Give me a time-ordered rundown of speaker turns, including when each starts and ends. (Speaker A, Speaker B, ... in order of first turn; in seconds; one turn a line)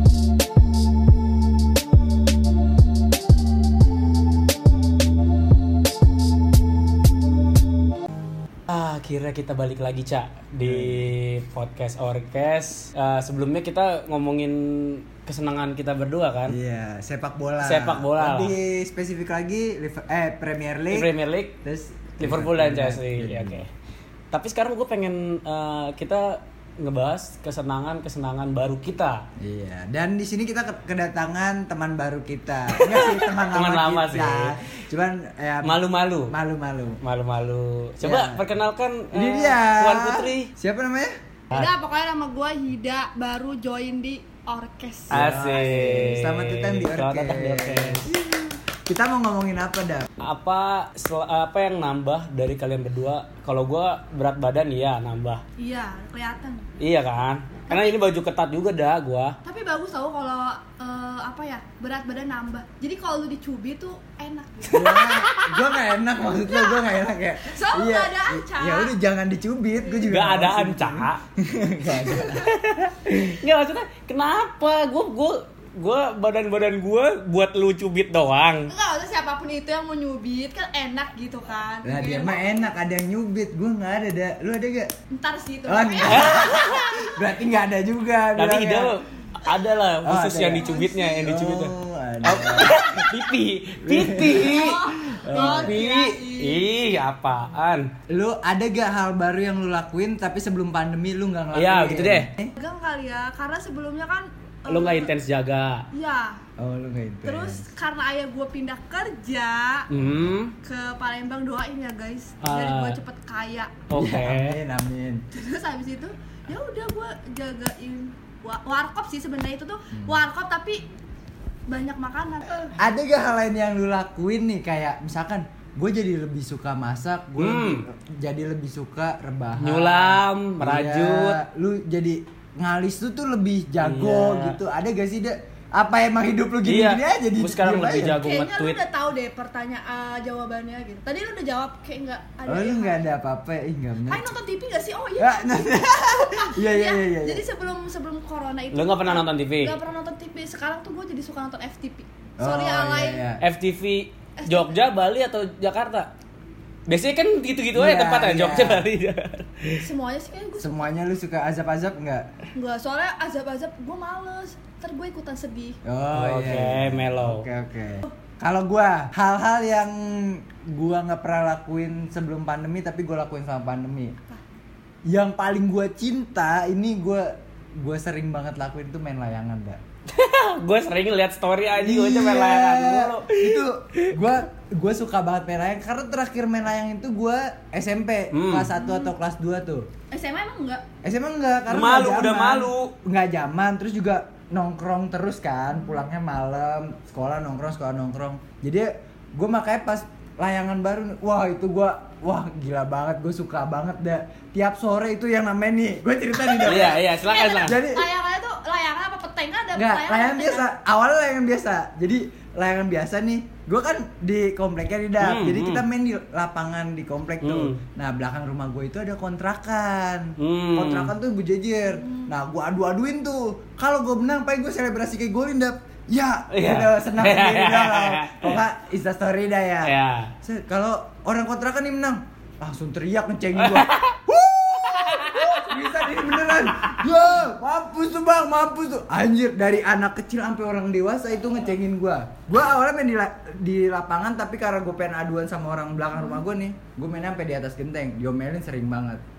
Speaker A: 8.7-16.6
Speaker B: 10.6-11.0
Speaker B: 16.5-21.1
Speaker A: 17.6-18.6
Speaker A: 20.9-21.6
Speaker B: 21.6-23.6
Speaker A: 22.2-23.7
Speaker A: 24.3-29.2
Speaker B: 29.4-37.0
Speaker A: 32.8-34.6
Speaker A: 35.6-36.3
Speaker A: 37.0-40.5
Speaker B: 38.0-38.5
Speaker B: 39.1-41.1
Speaker C: 41.5-45.2
Speaker A: 45.1-48.2
Speaker B: 45.1-48.1
Speaker C: 48.1-48.6
Speaker B: 48.9-50.1
Speaker A: 50.2-55.4
Speaker C: 55.6-56.7
Speaker A: 56.8-59.4
Speaker C: 57.7-58.0
Speaker C: 59.4-69.0
Speaker B: 64.7-72.6
Speaker A: 64.8-65.4
Speaker A: 70.1-71.2
Speaker C: 71.8-72.5
Speaker A: 72.3-78.7
Speaker C: 78.7-82.7
Speaker B: 81.8-84.9
Speaker C: 85.1-87.1
Speaker B: 85.7-88.9
Speaker A: 86.1-87.0
Speaker A: 88.3-97.9
Speaker B: 90.0-93.0
Speaker C: 90.6-91.3
Speaker B: 93.8-95.8
Speaker C: 94.3-96.7
Speaker B: 98.1-102.5
Speaker A: 101.5-102.3
Speaker C: 102.6-105.1
Speaker A: 104.7-105.9
Speaker C: 105.9-106.4
Speaker B: 106.6-107.7
Speaker C: 107.2-109.9
Speaker A: 109.9-110.5
Speaker B: 109.9-110.4
Speaker C: 110.6-113.8
Speaker A: 112.4-113.0
Speaker A: 113.9-114.6
Speaker B: 114.0-115.2
Speaker C: 115.3-120.9
Speaker B: 119.9-120.2
Speaker C: 121.7-122.7
Speaker B: 122.8-138.2
Speaker A: 127.4-127.8
Speaker A: 129.6-131.4
Speaker A: 133.8-134.6
Speaker A: 136.7-138.8
Speaker C: 138.1-143.0
Speaker B: 142.5-144.3
Speaker C: 144.1-153.2
Speaker B: 145.2-147.4
Speaker A: 148.7-149.8
Speaker B: 152.4-153.4
Speaker A: 153.4-156.1
Speaker C: 154.4-154.8
Speaker A: 156.9-159.9
Speaker B: 157.7-158.9
Speaker C: 159.8-160.8
Speaker B: 160.6-162.3
Speaker C: 162.5-165.8
Speaker B: 165.8-174.2
Speaker A: 166.1-167.5
Speaker B: 175.1-179.8
Speaker A: 180.1-184.1
Speaker B: 181.8-189.9
Speaker A: 188.3-188.7
Speaker C: 188.8-189.1
Speaker C: 190.1-190.8
Speaker B: 191.0-207.0
Speaker A: 191.7-192.9
Speaker C: 206.5-210.7
Speaker A: 206.6-207.8
Speaker B: 207.6-208.1
Speaker B: 209.7-249.2
Speaker A: 215.2-215.8
Speaker A: 217.4-217.8
Speaker A: 220.4-221.1
Speaker C: 221.8-222.3
Speaker A: 226.5-228.6
Speaker A: 229.8-230.3
Speaker A: 233.6-237.1
Speaker C: 246.1-246.4